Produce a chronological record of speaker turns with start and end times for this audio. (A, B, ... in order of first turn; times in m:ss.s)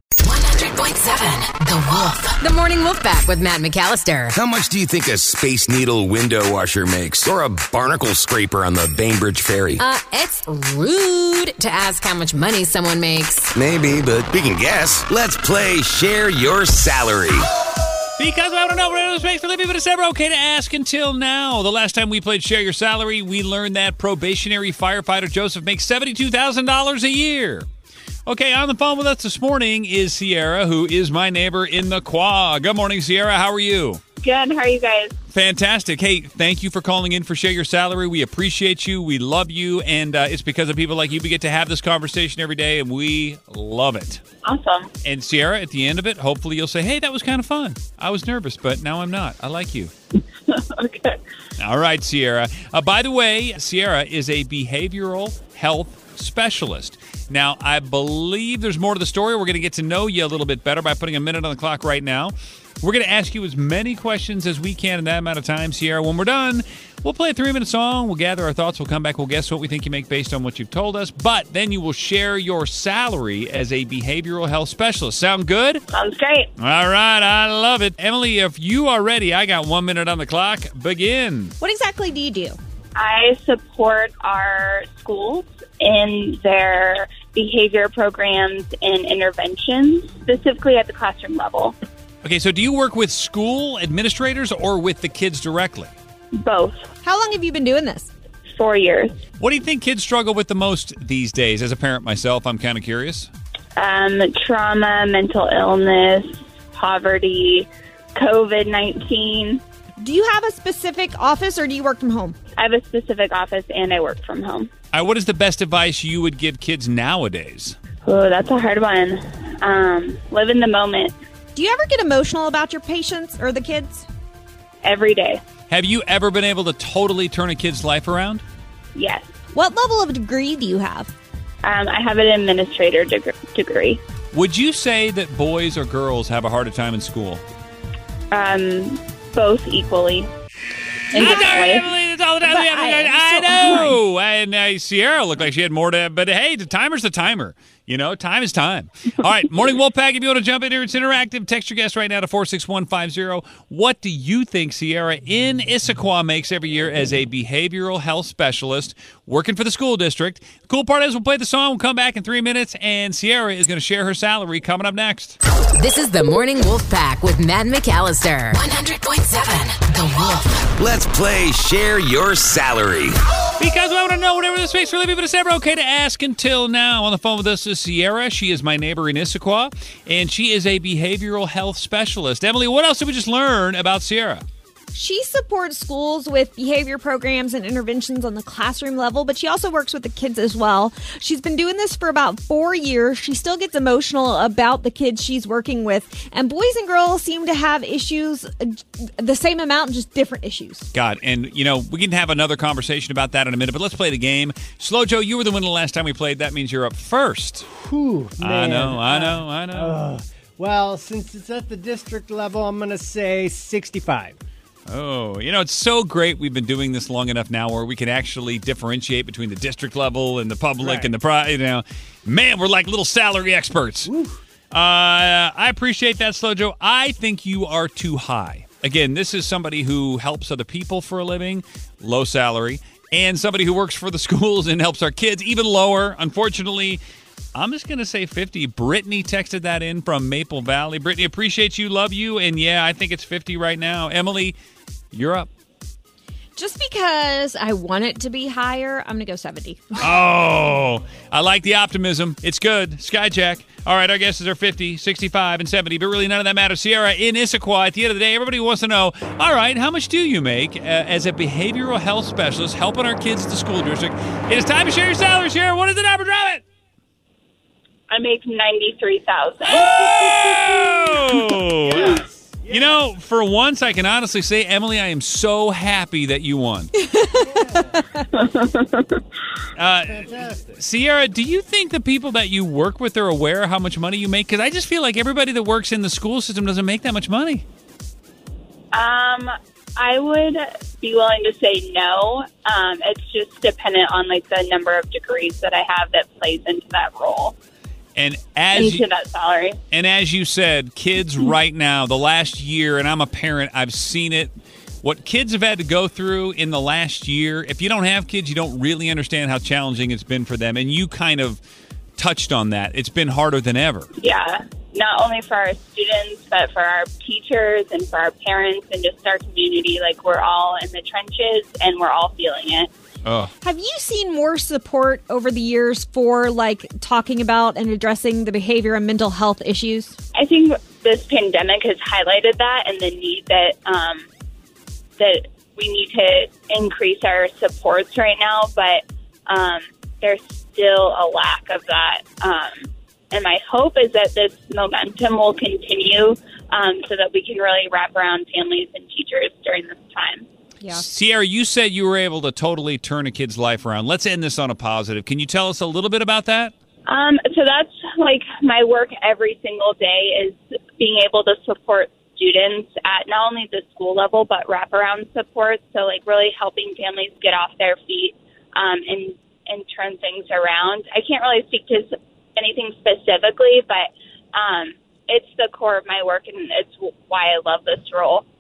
0:00.2-0:04.3 A
0:04.3-0:09.9 B
0:09.8-0:13.5 A
0:13.5-0:17.5 B
0:18.2-0:27.7 C
0:28.2-0:34.0 C
0:34.2-0:35.1 D
0:35.3-0:44.2 C
0:44.4-0:44.9 D
0:45.0-0:49.9 C
0:50.5-0:51.2 D
0:51.6-1:15.8 C
1:15.9-1:16.5 D
1:16.6-1:21.5 C
1:21.6-1:22.6 E
1:23.0-1:31.8 D
1:32.2-1:35.9 C
1:36.4-1:36.8 D
1:37.0-1:38.1 E
1:38.5-1:39.2 D
1:39.4-1:43.3 C
1:43.8-1:49.6 D
1:50.0-1:52.4 E
1:52.6-1:54.7 D
1:54.9-1:57.8 C
1:58.0-2:01.2 D
2:01.6-2:04.1 E
2:04.8-2:05.4 D
2:05.7-2:08.4 C
2:08.9-2:09.3 D
2:09.5-2:11.1 E
2:11.6-2:14.0 D
2:14.3-2:17.4 C
2:18.3-2:20.3 D
2:21.1-2:21.8 D
2:21.2-2:21.6 E
2:21.2-2:45.4 C
2:22.4-2:24.0 E
2:45.8-2:50.7 A
2:50.8-2:53.2 B
2:53.6-3:04.4 C
3:04.9-3:20.9 E
3:20.9-3:27.6 C
3:27.7-3:34.4 F
3:28.4-3:30.0 C
3:34.9-3:44.1 C
3:40.8-3:41.1 F
3:44.1-3:44.4 F
3:44.7-3:57.0 C
3:57.6-4:04.6 C
4:05.1-4:05.5 C
4:06.6-4:10.1 E
4:10.0-4:26.6 C
4:28.1-4:30.7 D
4:30.1-4:32.1 C
4:31.8-4:33.1 F
4:32.7-4:36.9 C
4:36.9-4:37.4 E
4:37.3-4:38.0 F
4:38.3-4:39.2 D
4:39.8-4:47.6 C
4:40.0-4:40.8 F
4:48.9-4:57.6 D
4:58.2-4:59.0 C
4:58.8-4:59.8 D
4:59.9-5:11.6 C
5:12.2-5:14.1 C
5:14.2-5:22.9 D
5:23.2-5:23.5 C
5:23.6-5:30.2 E
5:30.4-5:34.3 D
5:35.2-5:50.5 D
5:50.9-5:56.7 C
5:57.1-6:18.4 D